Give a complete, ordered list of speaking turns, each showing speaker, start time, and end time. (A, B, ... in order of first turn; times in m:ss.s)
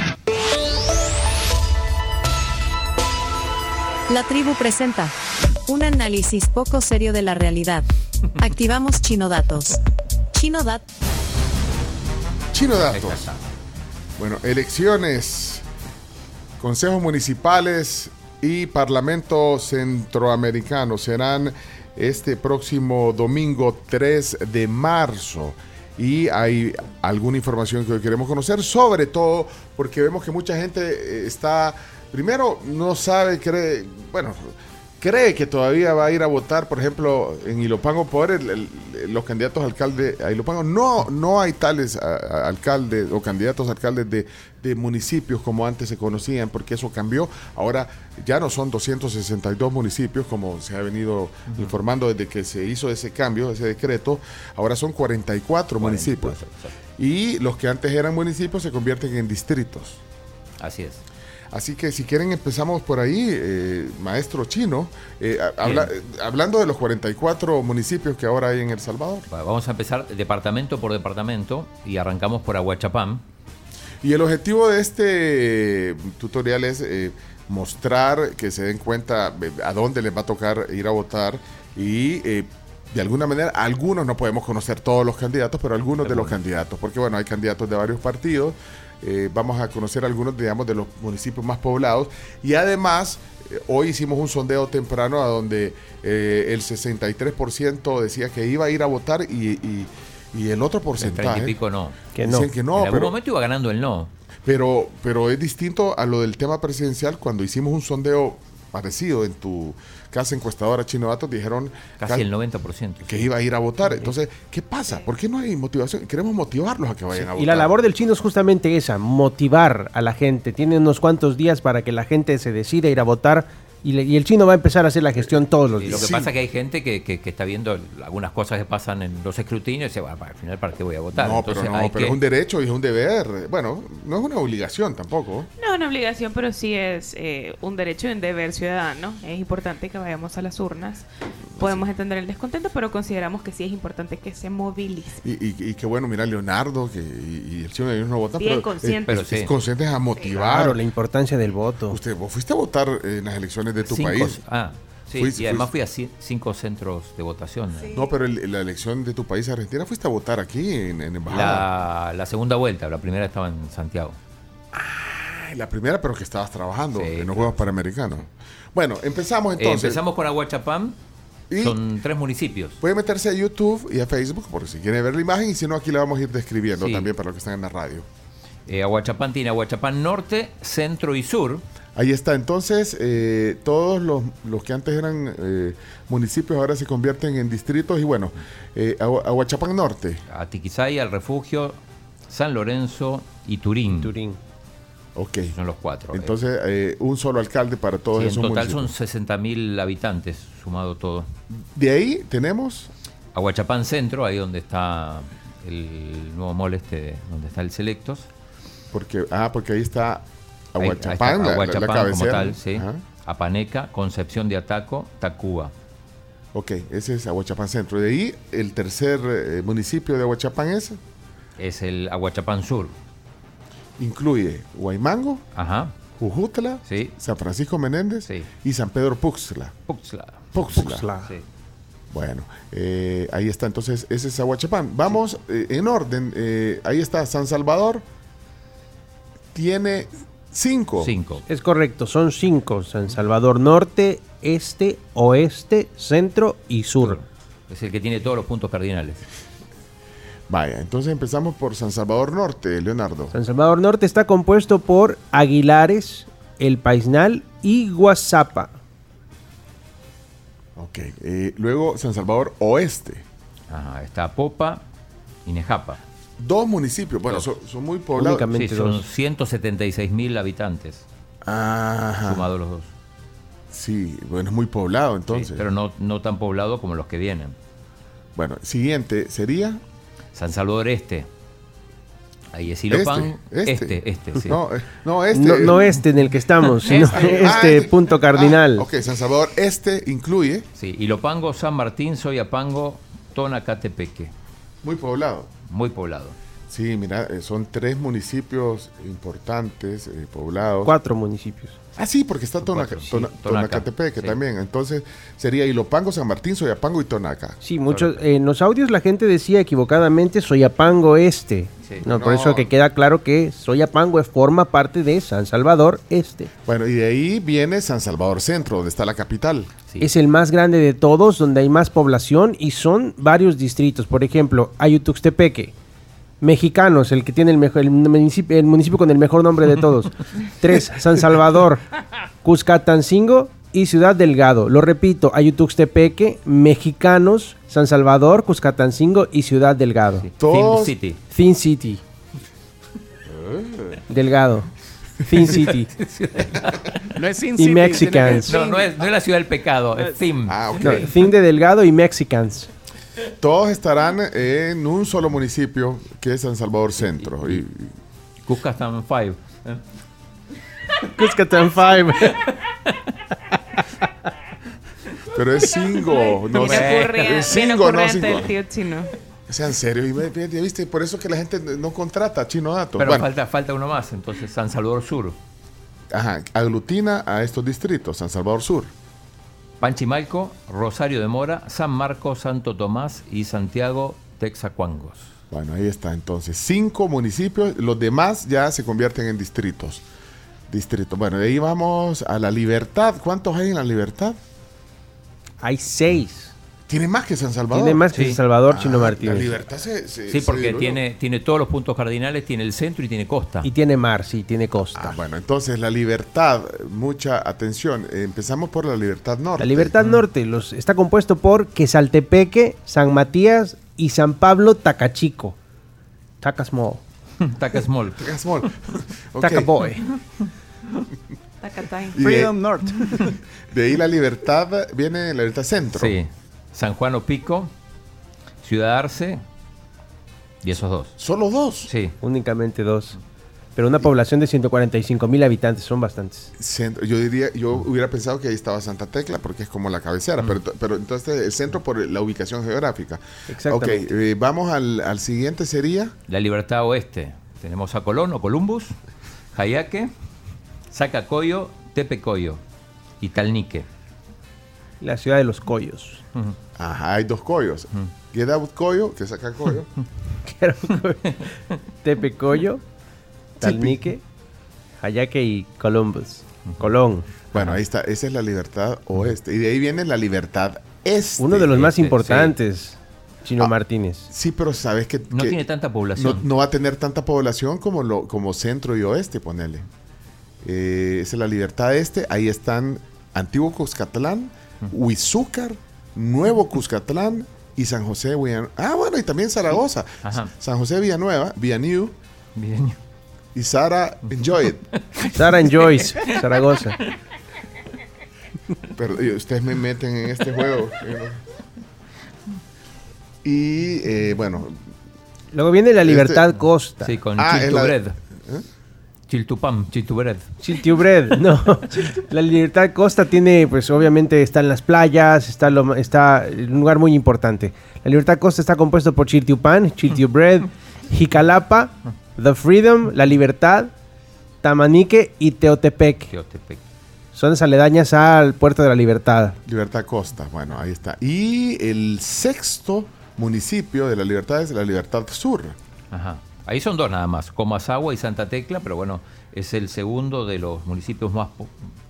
0:04.1-0:05.1 A
0:05.7-0:07.8 A
0:08.4-0:09.8 A
0:10.3-0:10.8 A
0:12.5-0:13.3 B
0:12.9-0:13.4 C
0:14.2-0:15.6 B
0:16.6-0:56.4 B
0:55.8-0:56.7 C
0:57.0-1:00.0 B
1:00.6-1:01.0 C
1:01.5-1:09.3 B
1:05.6-1:05.9 C
1:09.3-1:13.2 C
1:14.0-1:41.6 B
1:26.0-1:26.3 C
1:41.0-1:42.0 C
1:42.1-1:42.5 D
1:42.2-1:43.1 B
1:42.7-1:44.1 C
1:44.4-1:52.2 B
1:52.0-1:53.3 C
1:53.0-1:57.7 B
1:57.1-2:06.1 D
2:05.8-2:12.2 C
2:05.9-2:06.3 B
2:11.1-2:15.5 B
2:15.6-2:21.0 E
2:21.6-2:21.9 B
2:21.6-2:25.2 E
2:25.2-2:30.8 B
2:28.4-2:29.2 E
2:29.1-2:29.5 C
2:30.3-2:32.0 D
2:31.9-2:34.4 B
2:33.8-2:37.9 C
2:35.1-2:35.7 B
2:37.9-2:41.7 B
2:41.3-2:44.2 C
2:44.7-2:50.0 B
2:47.0-2:47.6 C
2:49.6-2:51.0 C
2:51.5-2:51.8 B
2:51.6-2:52.8 C
2:52.8-2:58.1 B
2:56.8-2:57.1 C
2:58.7-3:01.6 C
3:01.9-3:10.2 B
3:10.3-3:14.1 C
3:14.0-3:14.4 D
3:15.1-3:15.5 B
3:15.5-3:16.3 C
3:16.1-3:18.9 B
3:18.2-3:21.3 C
3:21.5-3:22.9 B
3:23.3-3:28.3 C
3:28.9-3:33.0 B
3:30.8-3:35.7 C
3:36.5-3:41.0 B
3:41.6-3:42.9 C
3:44.0-3:45.4 B
3:45.5-3:45.9 C
3:46.2-3:49.7 B
3:46.9-3:47.1 C
3:49.9-3:50.6 C
3:50.5-3:51.0 B
3:50.6-3:51.3 D
3:52.1-3:58.0 B
3:59.5-4:01.1 B
4:01.0-4:01.4 C
4:01.5-4:07.2 D
4:07.0-4:09.2 C
4:10.5-4:13.3 B
4:13.3-4:18.7 D
4:20.8-4:23.2 B
4:23.7-4:24.8 C
4:25.4-4:26.0 C
4:26.4-4:28.5 B
4:28.2-4:29.0 D
4:28.5-4:31.0 C
4:31.4-4:32.5 B
4:32.2-4:32.9 C
4:33.7-4:35.6 B
4:35.3-4:37.5 C
4:38.4-4:39.8 B
4:40.3-4:41.3 C
4:42.5-4:44.6 C
4:42.9-4:45.9 B
4:45.3-4:48.9 D
4:46.9-4:50.7 B
4:46.9-4:47.2 C
4:50.8-4:54.3 C
4:54.8-4:55.5 B
4:55.7-4:56.4 C
4:56.7-5:00.9 B
5:00.8-5:01.8 D
5:02.0-5:07.6 B
5:02.6-5:04.4 C
5:07.6-5:16.5 D
5:12.0-5:12.7 B
5:16.6-5:19.7 B
5:20.0-5:25.7 D
5:26.4-5:31.8 D
5:32.4-5:40.2 D
5:40.2-5:41.2 C
5:40.4-5:40.9 B
5:41.3-5:42.0 D
5:43.3-5:44.0 B
5:44.1-5:44.7 D
5:45.2-5:45.9 D
5:45.5-5:47.0 C
5:47.1-5:49.0 F
5:47.6-5:48.6 D
5:48.3-5:51.0 C
5:50.4-5:51.1 B
5:50.8-5:52.7 D
5:53.4-5:57.9 B
5:58.4-5:59.8 C
6:01.1-6:02.4 D
6:05.3-6:08.5 B
6:06.1-6:09.1 E
6:06.5-6:07.4 C
6:09.5-6:13.3 B
6:13.0-6:15.4 C
6:16.1-6:18.9 B
6:19.8-6:25.3 C
6:25.5-6:30.0 B
6:30.7-6:34.4 B
6:35.6-6:36.5 D
6:36.9-6:38.0 B
6:37.7-6:39.6 D
6:38.1-6:38.4 C
6:38.7-6:41.0 B
6:40.3-6:43.7 C
6:43.6-6:45.2 D
6:44.9-6:49.9 B
6:49.6-6:55.6 D
6:56.4-6:57.0 D
6:57.4-6:58.2 C
6:58.2-6:59.7 B
6:59.4-7:00.0 D
7:01.6-7:02.2 E
7:02.2-7:02.5 B
7:02.2-7:03.4 F
7:03.7-7:06.2 B
7:06.0-7:07.7 C
7:08.6-7:09.4 C
7:10.6-7:11.1 C
7:11.2-7:11.9 B
7:11.8-7:12.1 C
7:12.2-7:13.2 D
7:13.8-7:16.5 D
7:16.6-7:26.1 B
7:23.5-7:24.1 D
7:26.3-7:28.9 C
7:29.5-7:30.1 C
7:30.9-7:32.6 C
7:33.2-7:33.8 C
7:35.0-7:36.2 D
7:36.8-7:39.9 B
7:40.4-7:41.5 D
7:42.0-7:42.8 D
7:43.6-7:44.2 D
7:43.6-7:44.0 B
7:45.0-7:47.3 D
7:47.5-7:51.8 B
7:51.4-7:54.3 D
7:51.7-7:52.5 C
7:54.3-7:55.6 B
7:55.3-7:56.4 C
7:56.1-7:59.8 B
8:00.6-8:12.2 B
8:10.2-8:10.5 C
8:12.6-8:13.0 C
8:13.5-8:14.8 B
8:15.1-8:16.3 C
8:15.3-8:17.0 D
8:18.9-8:21.4 B
8:23.4-8:24.8 B
8:25.5-8:27.1 D
8:26.0-8:26.4 B
8:27.0-8:28.2 C
8:27.4-8:28.6 B
8:29.3-8:30.5 C
8:30.6-8:43.9 D
8:44.6-8:46.3 D
8:46.3-8:46.8 C
8:47.3-8:49.6 D
8:49.6-8:55.8 B
8:56.1-9:01.7 C